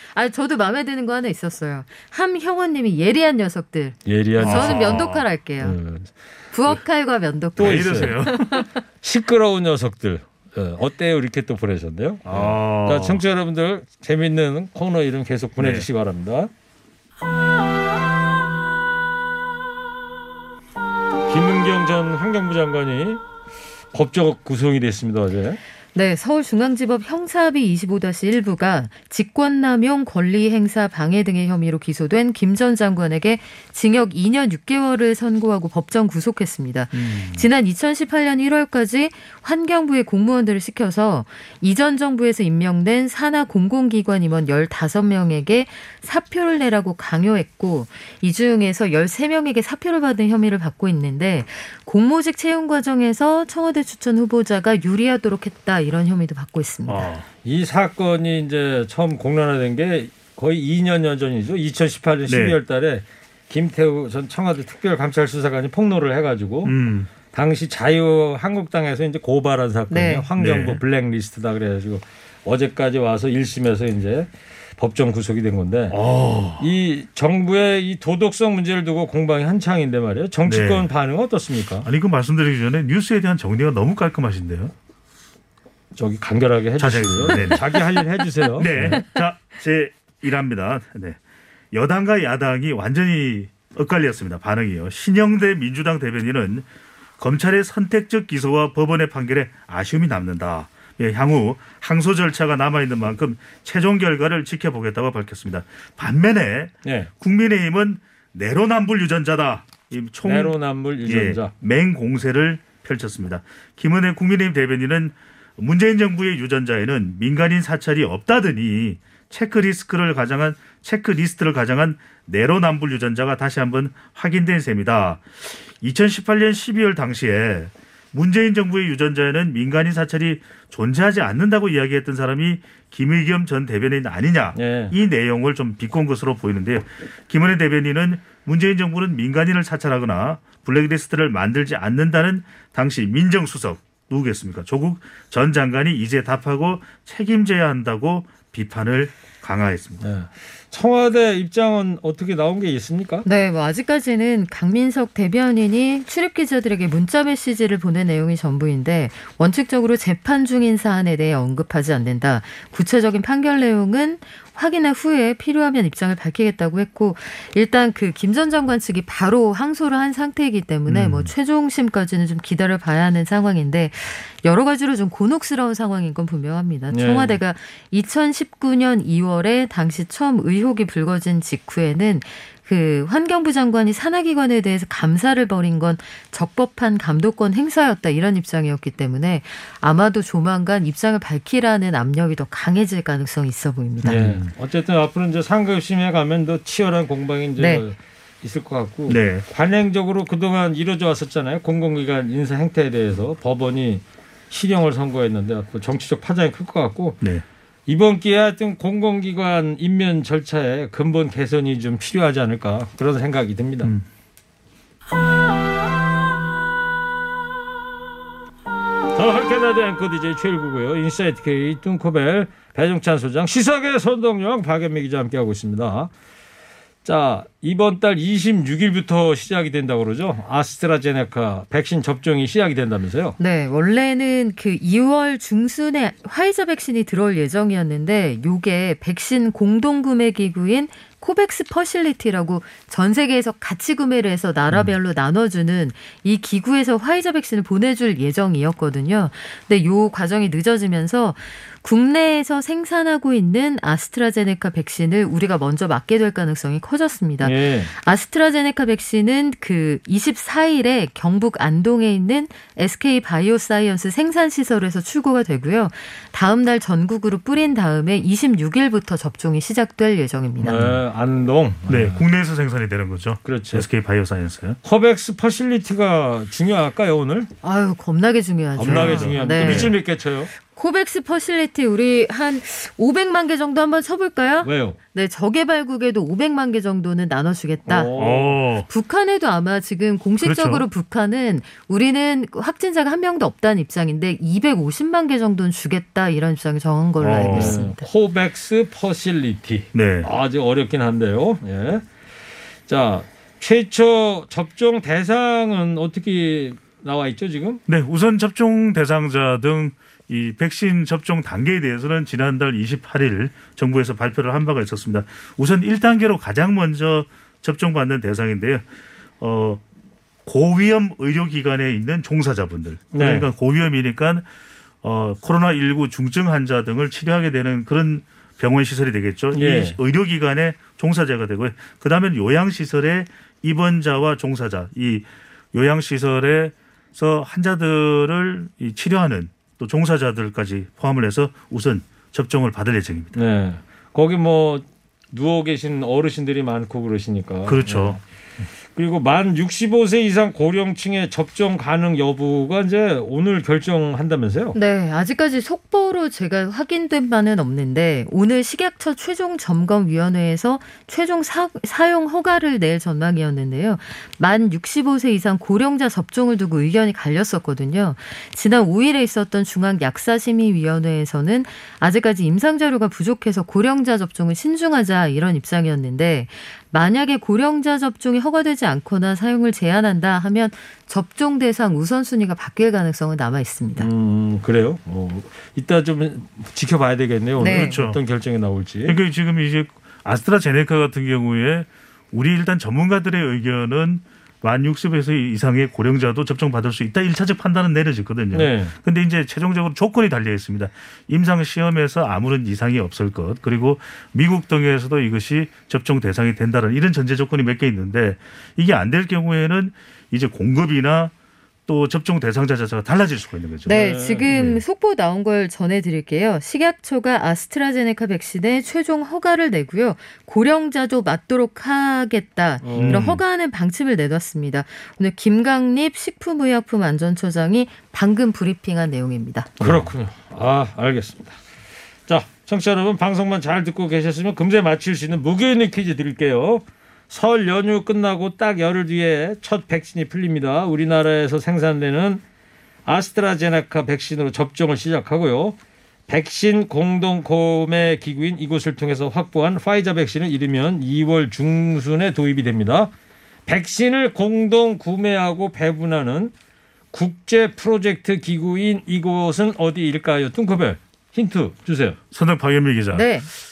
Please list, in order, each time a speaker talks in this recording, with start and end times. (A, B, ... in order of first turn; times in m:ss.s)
0:00.1-0:05.8 A
0:04.0-0:05.0 B
0:04.4-0:05.2 C
0:05.6-0:06.1 B
0:06.5-0:08.6 A
0:07.6-0:08.7 C
0:07.6-0:08.3 B
0:09.0-0:16.5 B
0:12.2-0:13.2 C
0:15.6-0:15.9 C
0:21.3-0:23.2 B
0:23.9-0:25.6 B
0:25.9-0:57.1 A
0:36.9-0:37.4 C
0:56.9-0:57.2 C
0:57.4-1:06.7 B
1:02.3-1:02.6 C
1:06.6-1:07.1 C
1:07.3-1:16.0 B
1:09.9-1:10.2 A
1:10.4-1:10.8 C
1:15.9-1:16.7 C
1:16.6-1:21.9 B
1:20.4-1:20.9 C
1:21.8-1:24.7 C
1:25.9-1:29.0 B
1:26.8-1:27.8 C
1:28.6-1:31.2 C
1:31.7-1:36.6 C
1:37.2-2:30.0 C
1:46.8-1:47.1 B
1:50.2-1:51.5 B
2:14.6-2:14.9 B
2:30.0-2:33.2 B
2:33.2-3:14.3 A
2:50.9-2:51.2 C
2:56.9-2:57.3 B
3:14.0-3:27.2 B
3:14.0-3:14.4 C
3:17.6-3:17.8 A
3:19.1-3:19.4 C
3:27.9-3:33.9 B
3:39.1-3:46.1 B
3:47.0-3:53.4 B
3:53.4-4:31.0 A
4:17.4-4:17.9 B
4:30.6-4:32.2 B
4:31.9-4:34.8 C
4:33.4-4:33.9 B
4:34.8-4:37.5 B
4:37.6-4:39.9 A
4:38.8-4:40.5 B
4:38.8-4:39.9 C
4:40.7-4:48.1 A
4:44.6-4:45.0 B
4:47.9-4:48.6 B
4:48.1-4:48.9 C
4:48.9-4:58.0 A
4:50.4-4:50.9 C
4:57.2-4:57.8 C
4:57.5-5:02.1 B
4:59.9-5:00.3 C
5:02.9-5:07.8 B
5:07.9-5:18.8 C
5:19.4-5:19.8 C
5:20.4-5:24.4 C
5:23.1-5:23.5 B
5:25.0-5:43.4 C
5:29.5-5:30.0 B
5:43.4-5:48.2 B
5:47.6-5:48.2 C
5:48.9-5:54.8 B
5:54.7-6:24.1 A
6:24.0-6:29.2 B
6:27.6-6:27.9 A
6:27.6-6:28.2 C
6:29.0-6:51.3 C
6:38.5-6:38.9 B
6:51.9-6:54.8 C
6:53.9-7:09.8 A
6:53.9-6:54.6 B
7:02.8-7:03.3 B
7:02.9-7:03.4 C
7:09.8-7:10.1 C
7:09.8-7:11.6 B
7:12.3-7:22.4 B
7:23.0-7:25.8 B
7:26.3-7:33.1 B
7:33.6-7:36.5 B
7:37.1-7:42.2 B
7:42.3-7:43.3 C
7:43.1-7:43.5 A